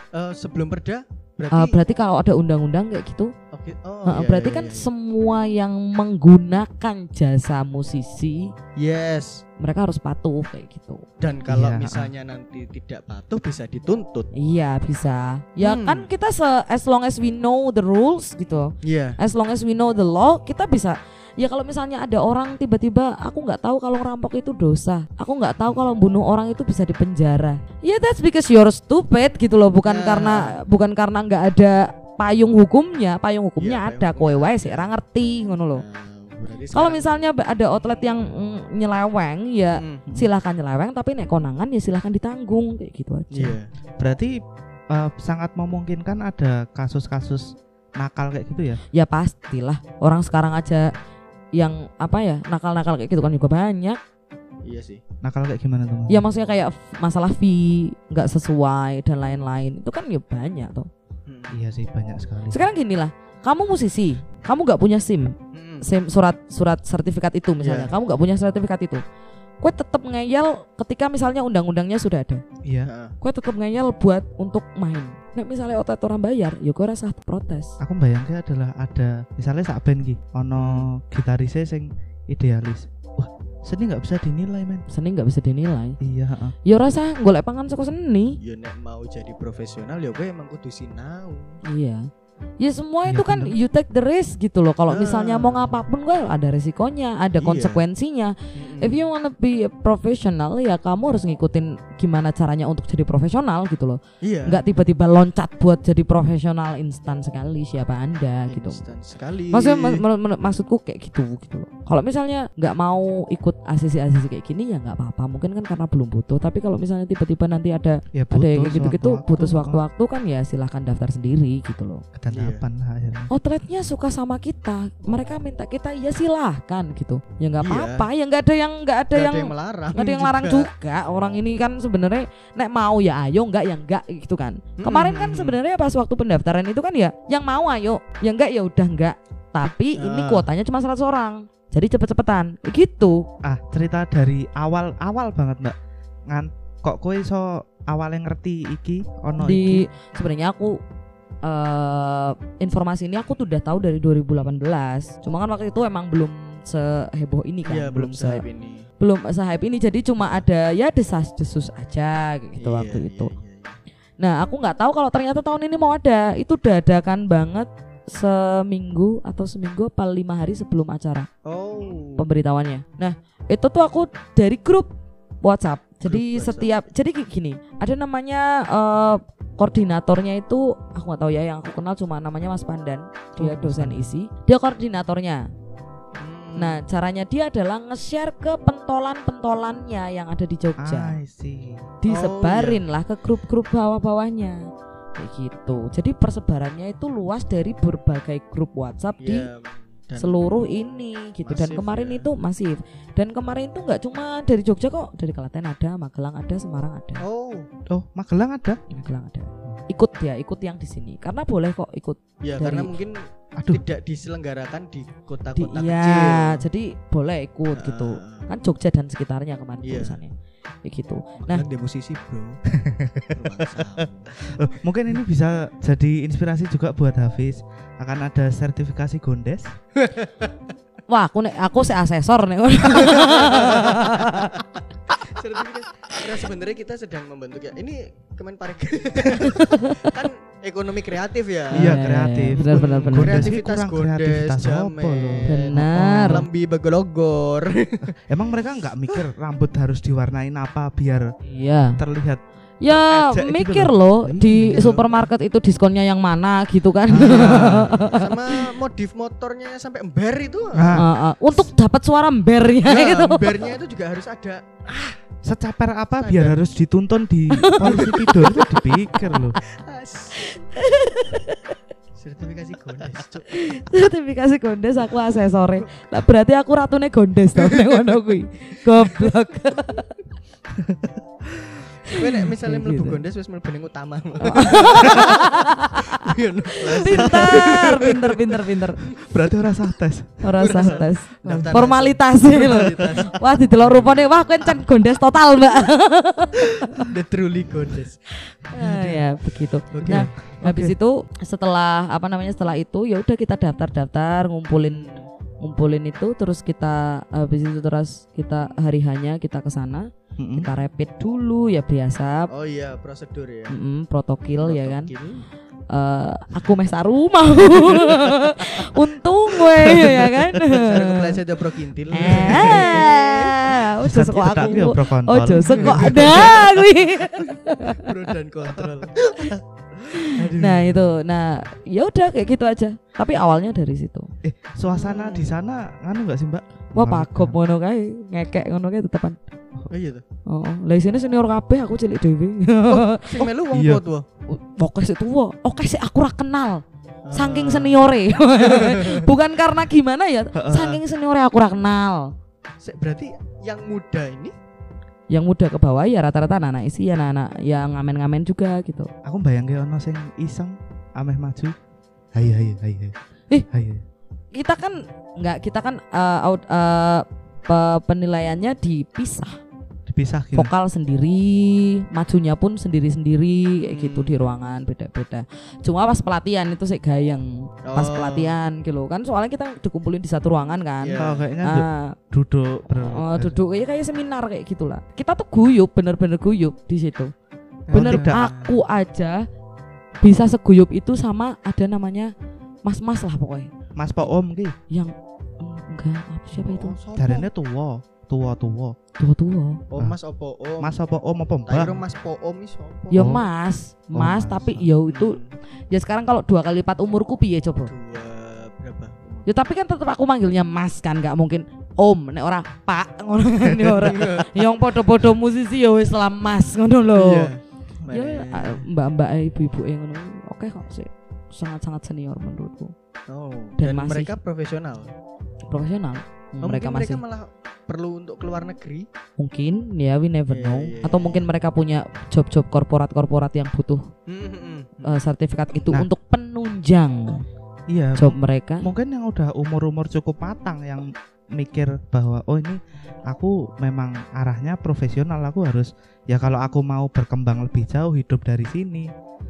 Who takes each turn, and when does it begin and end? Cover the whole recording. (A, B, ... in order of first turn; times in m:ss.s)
0:00.1-0:01.8 A
0:01.5-0:03.3 B
0:03.5-0:04.9 A
0:04.1-0:08.5 B
0:08.8-0:09.4 A
0:09.6-0:11.0 B
0:11.2-0:14.3 A
0:11.5-0:12.1 C
0:14.3-0:35.8 B
0:15.6-0:16.1 A
0:18.8-0:19.2 A
0:29.8-0:30.5 A
0:33.6-0:34.9 A
0:35.7-0:37.3 A
0:36.7-0:43.6 B
0:39.8-0:40.0 A
0:43.3-0:43.7 A
0:44.0-0:48.8 C
0:48.9-0:50.9 B
0:51.6-0:54.0 B
0:54.6-0:55.0 A
0:55.2-0:56.3 C
0:56.1-1:00.9 B
1:01.3-1:01.6 A
1:01.5-1:02.6 C
1:02.5-1:09.0 B
1:05.5-1:05.9 A
1:07.6-1:07.9 A
1:09.6-1:12.4 B
1:12.6-1:12.9 C
1:12.8-1:13.2 A
1:13.2-1:17.8 B
1:17.8-1:24.9 C
1:20.6-1:20.9 A
1:24.9-1:26.0 B
1:26.0-1:26.6 C
1:26.7-1:28.4 B
1:28.4-1:31.6 A
1:31.7-1:32.1 B
1:32.6-1:48.8 B
1:33.1-1:33.5 C
1:34.9-1:35.7 A
1:37.4-1:37.8 A
1:38.6-1:39.1 A
1:44.2-1:44.6 A
1:48.5-1:50.0 A
1:49.5-2:02.0 B
1:58.1-1:59.8 C
2:02.2-2:03.3 C
2:02.3-2:02.6 A
2:03.3-2:23.3 B
2:07.6-2:08.1 A
2:09.1-2:10.7 A
2:14.8-2:15.6 A
2:20.0-2:20.5 A
2:23.4-2:25.8 C
2:26.3-2:29.9 C
2:29.4-2:30.8 B
2:31.4-2:38.4 B
2:37.6-2:38.8 A
2:39.0-2:43.3 B
2:42.6-2:43.8 A
2:44.2-2:51.3 B
2:51.4-2:52.2 A
2:52.2-2:54.9 B
2:55.4-3:05.5 B
2:56.1-2:56.8 A
3:03.4-3:04.1 C
3:06.2-3:06.8 A
3:06.6-3:11.2 B
3:10.8-3:11.9 C
3:12.0-3:19.5 B
3:12.1-3:12.8 A
3:19.2-3:20.8 A
3:20.2-3:27.2 B
3:21.4-3:22.3 A
3:27.2-3:27.7 A
3:27.9-3:28.8 C
3:28.9-3:32.9 B
3:32.4-3:36.6 A
3:35.6-3:41.6 B
3:37.8-3:38.5 A
3:39.8-3:40.2 A
3:41.4-3:42.6 A
3:42.8-3:43.9 C
3:43.3-3:44.3 A
3:44.4-3:49.8 C
3:50.0-3:50.5 A
3:51.1-3:54.6 B
3:53.1-3:54.6 A
3:55.2-4:02.0 A
3:59.4-4:00.1 B
4:01.7-4:03.5 B
4:01.7-4:06.4 C
4:02.5-4:08.1 A
4:05.5-4:06.4 B
4:08.0-4:11.3 C
4:11.4-4:12.0 B
4:12.0-4:15.0 C
4:12.8-4:18.4 B
4:14.7-4:15.0 A
4:17.1-4:18.0 C
4:17.2-4:21.0 A
4:20.8-4:21.1 C
4:21.0-4:23.7 B
4:22.8-4:25.1 A
4:25.4-4:29.6 C
4:26.2-4:26.6 A
4:27.5-4:28.7 B
4:27.8-4:28.8 A
4:29.6-4:30.6 A
4:30.4-4:31.8 B
4:32.2-4:33.6 A
4:33.5-4:40.1 B
4:40.8-4:41.9 C
4:42.1-4:43.2 B
4:42.1-4:45.6 A
4:44.4-4:46.3 B
4:46.1-4:48.5 A
4:46.8-4:49.0 B
4:47.1-4:47.7 C
4:49.2-4:50.5 C
4:50.4-4:57.1 B
4:50.6-4:54.7 A
4:57.0-4:58.2 A
4:58.7-5:05.1 B
4:58.8-4:59.2 A
4:59.9-5:00.3 A
5:00.0-5:00.9 C
5:04.8-5:05.3 A
5:05.6-5:12.5 B
5:10.4-5:10.7 C
5:12.5-5:13.8 A
5:13.7-5:15.1 B
5:14.6-5:15.4 A
5:15.9-5:21.4 B
5:19.9-5:23.7 A
5:22.1-5:28.1 B
5:22.4-5:22.9 C
5:24.0-5:26.7 C
5:25.6-5:26.8 A
5:27.4-5:29.6 A
5:28.7-5:29.6 C
5:30.1-5:34.3 B
5:30.3-5:31.1 A
5:34.4-5:37.6 C
5:35.0-5:35.6 A
5:37.0-5:39.4 B
5:39.9-5:40.2 A
5:40.5-5:43.3 B
5:42.9-5:44.3 A
5:43.4-5:44.0 C
5:44.5-5:52.3 B
5:47.2-5:48.0 A
5:48.5-5:49.3 A
5:50.6-5:51.0 C
5:52.8-5:54.5 A
5:55.3-5:59.1 B
5:59.2-6:01.8 C
6:02.3-6:03.2 C
6:03.7-6:04.0 C
6:04.5-6:09.6 B
6:10.1-6:10.7 C
6:10.5-6:22.2 B
6:13.9-6:14.4 A
6:17.9-6:18.6 A
6:21.0-6:21.5 A
6:21.2-6:23.6 C
6:23.0-6:27.3 B
6:27.9-6:28.8 A
6:27.9-6:28.5 C
6:27.9-6:29.4 B
6:30.2-6:32.3 B
6:32.8-6:33.7 B
6:34.0-6:34.8 C
6:34.9-6:37.0 B
6:36.5-6:37.5 A
6:37.2-6:39.0 C
6:39.2-6:39.8 B
6:39.9-6:41.0 A
6:40.8-6:42.0 C
6:41.7-6:43.4 A
6:43.1-6:45.4 B
6:43.1-6:43.4 C
6:44.2-6:44.9 C
6:45.1-6:45.5 A
6:45.9-6:47.9 B
6:47.9-6:49.5 A
6:49.5-6:57.5 B
6:53.9-6:54.6 A
6:57.1-6:58.9 A
6:58.1-7:02.9 B
7:03.3-7:05.1 A
7:03.8-7:04.3 B
7:05.7-7:07.2 B
7:06.6-7:09.1 A
7:09.4-7:14.1 B
7:10.5-7:11.5 A
7:14.3-7:15.2 A
7:15.0-7:17.4 B
7:17.9-7:29.1 C
7:18.2-7:18.9 B